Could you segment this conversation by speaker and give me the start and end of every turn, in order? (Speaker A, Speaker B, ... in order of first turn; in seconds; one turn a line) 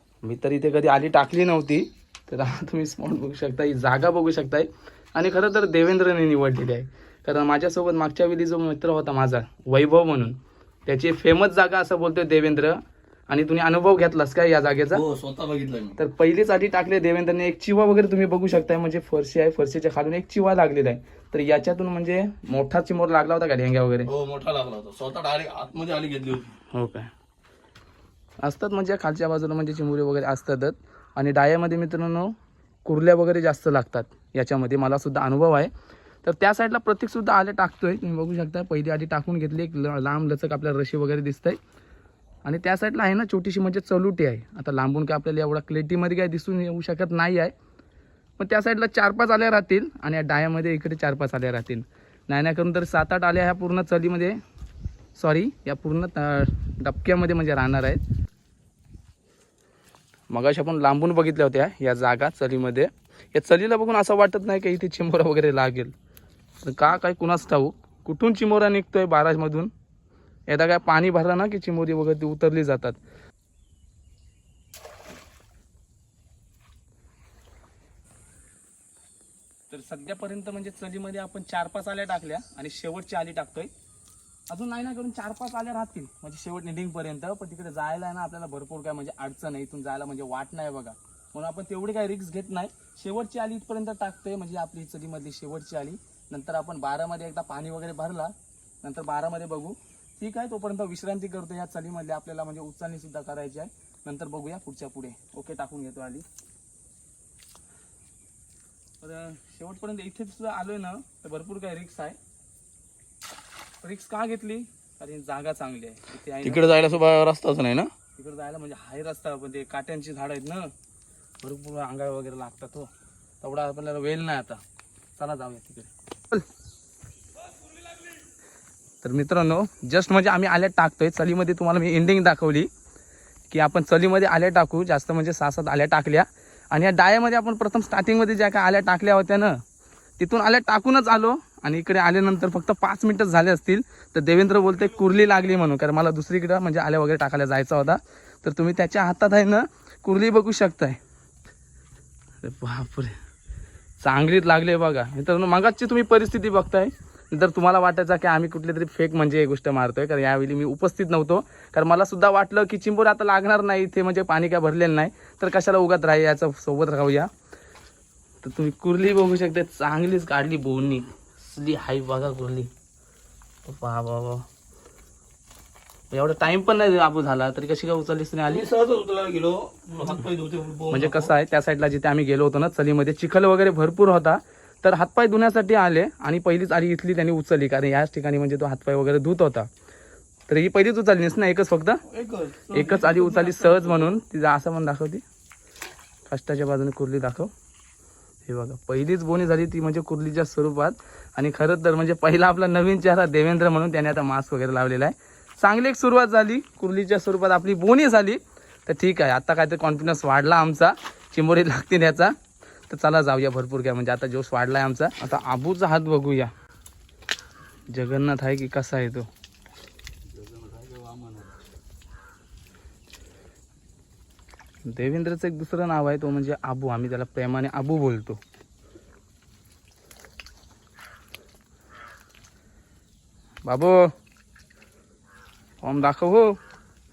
Speaker A: 0.2-15.0
Speaker B: 14.9-16.0
Speaker A: 16.0-24.1
Speaker B: 24.1-26.6
Speaker A: 26.7-27.1
Speaker A: 28.4-35.7
Speaker A: 36.2-41.6
Speaker A: 42.4-47.5
Speaker A: 48.4-54.4
Speaker A: 55.1-58.0
Speaker A: 60.3-65.9
Speaker A: 66.6-69.7
Speaker A: 70.5-73.0
Speaker A: 79.7-83.7
Speaker A: 84.5-106.2
Speaker A: 109.0-112.2
Speaker A: 113.8-116.7
Speaker B: 116.4-117.9
Speaker A: 118.2-120.7
Speaker A: 121.4-122.9
Speaker A: 123.4-124.6
Speaker A: 125.2-126.4
Speaker A: 129.0-132.7
Speaker A: 133.5-139.6
Speaker A: 140.2-151.0
Speaker A: 152.4-153.1
Speaker A: 154.0-167.3
Speaker A: 168.4-172.7
Speaker A: 173.6-174.5
Speaker A: 176.1-178.7
Speaker B: 178.5-181.3
Speaker A: 180.9-189.7
Speaker A: 190.5-192.0
Speaker B: 192.1-194.2
Speaker A: 192.7-195.2
Speaker A: 196.3-197.5
Speaker A: 198.4-212.3
Speaker A: 212.9-216.5
Speaker A: 217.9-219.3
Speaker B: 220.3-221.5
Speaker A: 224.8-228.4
Speaker A: 233.7-234.1
Speaker A: 235.8-236.5